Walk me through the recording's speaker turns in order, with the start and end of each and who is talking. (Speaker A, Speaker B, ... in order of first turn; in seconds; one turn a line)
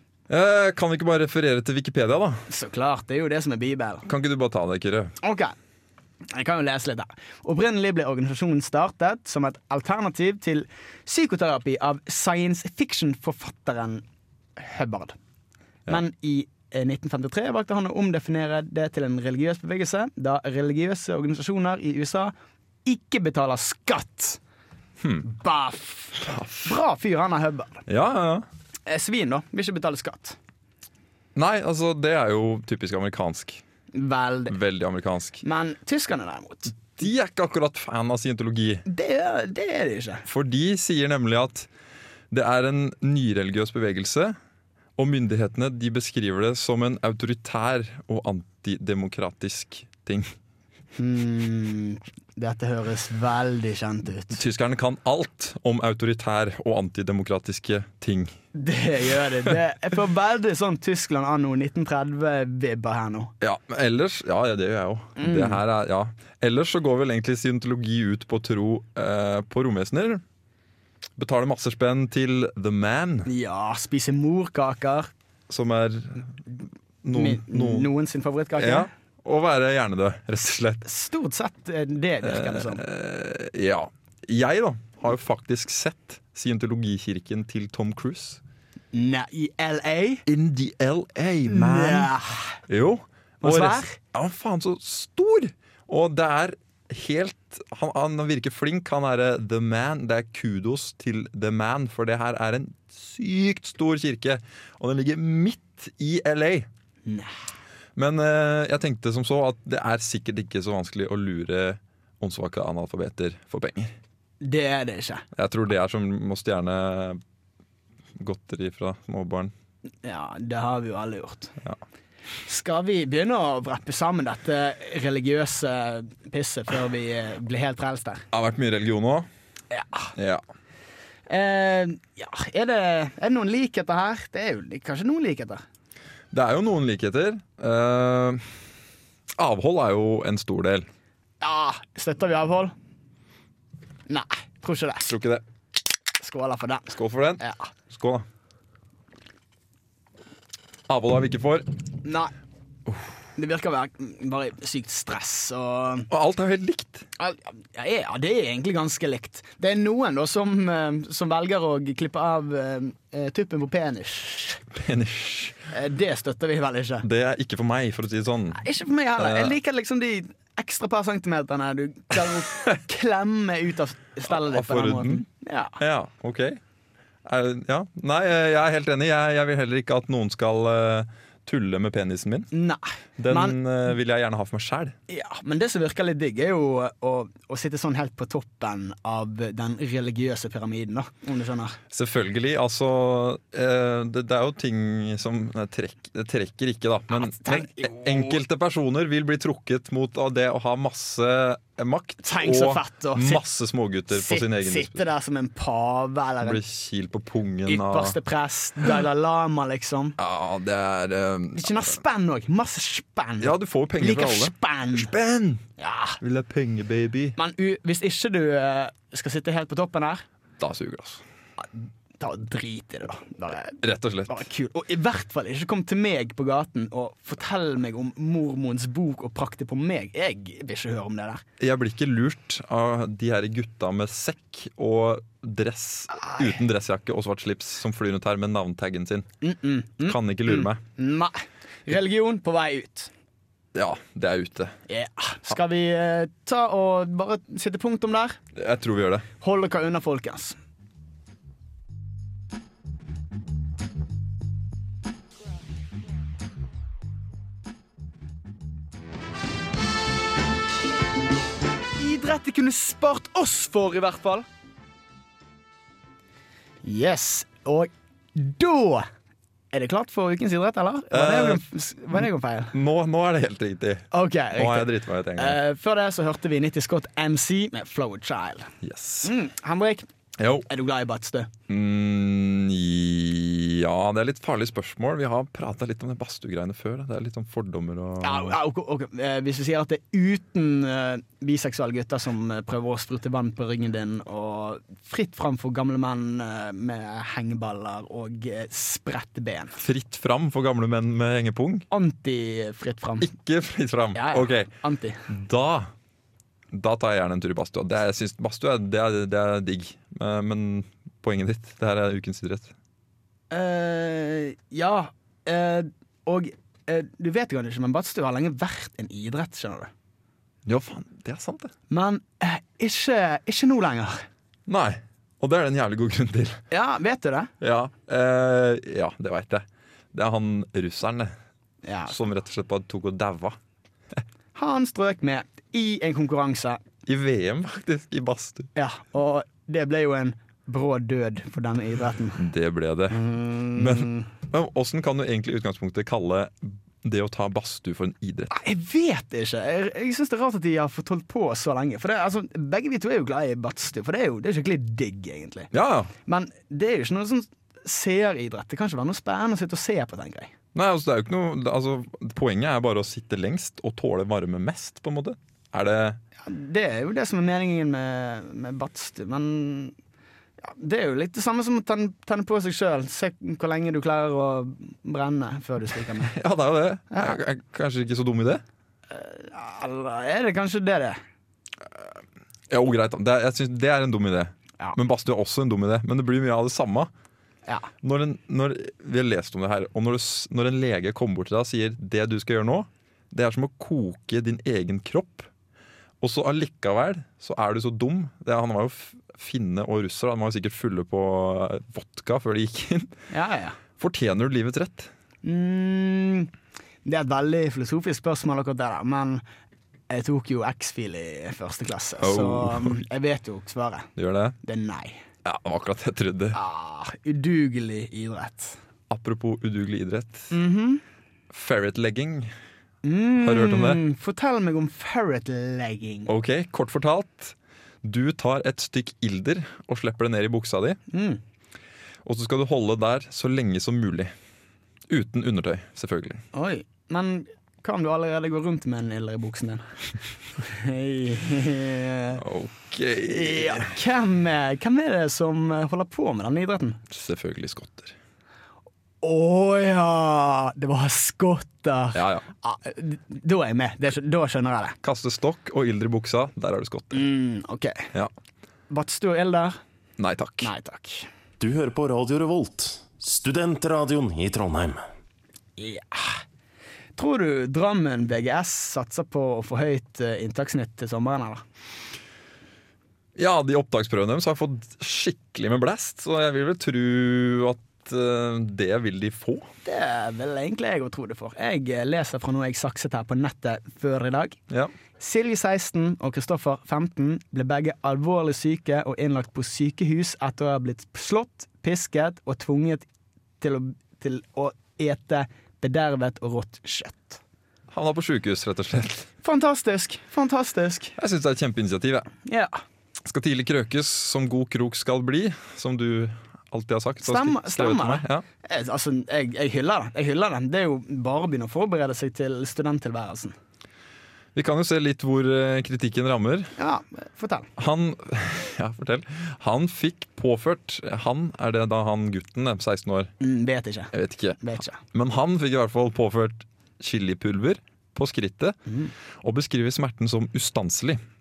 Speaker A: 0.3-2.4
Speaker B: 2.5-4.1
Speaker A: 4.0-5.1
Speaker B: 5.2-5.5
Speaker B: 6.3-14.0
Speaker B: 14.6-15.2
Speaker B: 15.9-22.3
Speaker B: 22.8-24.4
Speaker A: 25.0-25.2
Speaker B: 25.2-27.8
Speaker A: 26.2-26.7
Speaker A: 27.9-28.4
Speaker B: 28.9-30.4
Speaker A: 31.3-33.6
Speaker B: 33.9-34.6
Speaker A: 34.5-35.4
Speaker B: 35.4-36.8
Speaker A: 36.8-38.8
Speaker B: 38.9-40.2
Speaker A: 40.2-41.7
Speaker A: 42.3-44.4
Speaker A: 45.0-50.3
Speaker B: 51.0-54.4
Speaker A: 54.3-58.3
Speaker B: 58.5-63.3
Speaker A: 63.4-70.2
Speaker B: 65.2-65.6
Speaker A: 71.2-73.3
Speaker B: 73.2-75.1
Speaker A: 75.5-76.3
Speaker A: 77.0-77.9
Speaker B: 77.1-78.9
Speaker A: 78.6-80.8
Speaker B: 80.8-82.8
Speaker A: 82.2-88.4
Speaker B: 88.9-90.2
Speaker A: 90.2-92.1
Speaker B: 91.5-92.6
Speaker A: 92.7-106.7
Speaker B: 93.4-94.0
Speaker B: 107.0-107.3
Speaker A: 108.0-113.9
Speaker B: 114.4-115.2
Speaker A: 115.3-117.2
Speaker A: 118.2-119.5
Speaker B: 120.0-121.5
Speaker B: 122.4-128.2
Speaker A: 128.3-129.3
Speaker B: 129.7-130.1
Speaker A: 130.2-130.4
Speaker B: 131.3-135.6
Speaker A: 136.3-138.6
Speaker A: 139.4-140.9
Speaker B: 141.4-142.7
Speaker B: 144.1-145.1
Speaker A: 145.1-145.4
Speaker B: 146.2-147.7
Speaker A: 146.9-148.2
Speaker A: 150.9-151.7
Speaker B: 152.0-152.3
Speaker B: 153.3-156.1
Speaker A: 156.1-157.0
Speaker B: 157.2-164.6
Speaker A: 164.7-165.6
Speaker B: 165.7-167.1
Speaker A: 167.0-168.6
Speaker B: 168.5-175.8
Speaker A: 169.2-169.6
Speaker A: 174.3-175.2
Speaker A: 175.8-176.6
Speaker A: 177.2-182.5
Speaker B: 182.5-183.6
Speaker A: 183.2-184.9
Speaker B: 185.1-191.8
Speaker A: 191.9-205.0
Speaker B: 197.1-198.4
Speaker B: 202.2-203.4
Speaker B: 204.1-206.6
Speaker A: 206.4-208.2
Speaker B: 207.7-210.2
Speaker A: 210.2-211.9
Speaker B: 211.6-215.1
Speaker A: 213.4-215.6
Speaker B: 215.8-216.2
Speaker A: 216.2-217.4
Speaker B: 217.4-220.2
Speaker A: 220.6-221.2
Speaker B: 221.6-231.4
Speaker A: 223.8-224.4
Speaker A: 231.6-239.3
Speaker B: 236.1-236.5
Speaker B: 239.4-243.1
Speaker A: 240.0-240.8
Speaker A: 243.7-244.7
Speaker B: 244.9-248.4
Speaker A: 248.5-249.3
Speaker B: 249.4-250.6
Speaker B: 262.0-264.4
Speaker B: 266.8-269.1
Speaker B: 269.7-272.7
Speaker A: 271.1-271.6
Speaker A: 272.7-275.6
Speaker B: 274.1-278.7
Speaker A: 278.8-279.3
Speaker B: 279.2-280.1
Speaker A: 280.4-280.7
Speaker B: 280.7-281.5
Speaker A: 281.7-288.6
Speaker B: 288.2-299.8
Speaker A: 299.8-301.9
Speaker B: 301.9-303.3
Speaker A: 303.2-304.7
Speaker B: 304.1-305.2
Speaker A: 305.3-305.9
Speaker A: 306.7-312.7
Speaker B: 313.5-319.9
Speaker A: 320.6-321.7
Speaker B: 321.9-324.2
Speaker A: 324.7-326.6
Speaker B: 326.7-327.5
Speaker A: 327.6-331.3
Speaker B: 331.8-332.2
Speaker A: 332.1-333.6
Speaker B: 334.5-336.8
Speaker A: 337.0-338.7
Speaker B: 338.8-342.4
Speaker A: 342.4-348.5
Speaker B: 343.1-344.3
Speaker B: 348.5-355.7
Speaker A: 355.7-356.1
Speaker B: 356.2-360.5
Speaker A: 360.7-366.2
Speaker B: 366.4-369.9
Speaker B: 370.6-376.4
Speaker A: 376.3-378.6
Speaker B: 377.1-377.4
Speaker B: 379.1-381.2
Speaker A: 382.7-387.1
Speaker A: 388.0-395.5
Speaker A: 396.2-403.1
Speaker B: 403.3-403.8
Speaker A: 404.0-405.1
Speaker B: 405.4-406.5
Speaker B: 407.0-409.4
Speaker B: 410.1-414.1
Speaker A: 412.2-413.0
Speaker A: 414.1-414.6
Speaker B: 414.6-415.2
Speaker A: 415.4-416.6
Speaker B: 416.5-418.8
Speaker A: 419.1-420.5
Speaker B: 420.5-421.0
Speaker A: 421.5-422.5
Speaker B: 423.0-426.3
Speaker A: 423.4-424.0
Speaker A: 426.3-431.0
Speaker B: 431.1-431.4
Speaker A: 432.2-434.3
Speaker A: 435.1-436.4
Speaker B: 436.5-439.9
Speaker B: 440.6-442.4
Speaker A: 442.4-443.9
Speaker B: 443.2-447.0
Speaker A: 447.1-448.1
Speaker B: 449.2-455.0
Speaker A: 452.1-452.4
Speaker A: 455.0-457.3
Speaker B: 457.1-458.1
Speaker B: 458.9-459.8
Speaker A: 460.2-460.7
Speaker B: 460.6-461.3
Speaker C: 461.6-465.0
Speaker B: 465.8-466.4
Speaker B: 467.1-471.6
Speaker A: 473.4-479.6
Speaker B: 479.8-484.6
Speaker B: 485.2-493.1
Speaker B: 493.6-497.4
Speaker A: 497.9-499.3
Speaker B: 499.4-501.1
Speaker A: 501.2-502.3
Speaker B: 502.4-502.8
Speaker A: 503.2-508.4
Speaker B: 507.2-513.5
Speaker A: 514.5-516.7
Speaker B: 516.8-517.7
Speaker A: 517.8-523.3
Speaker B: 523.4-525.0
Speaker A: 524.1-528.8
Speaker B: 528.9-529.1
Speaker A: 529.4-531.2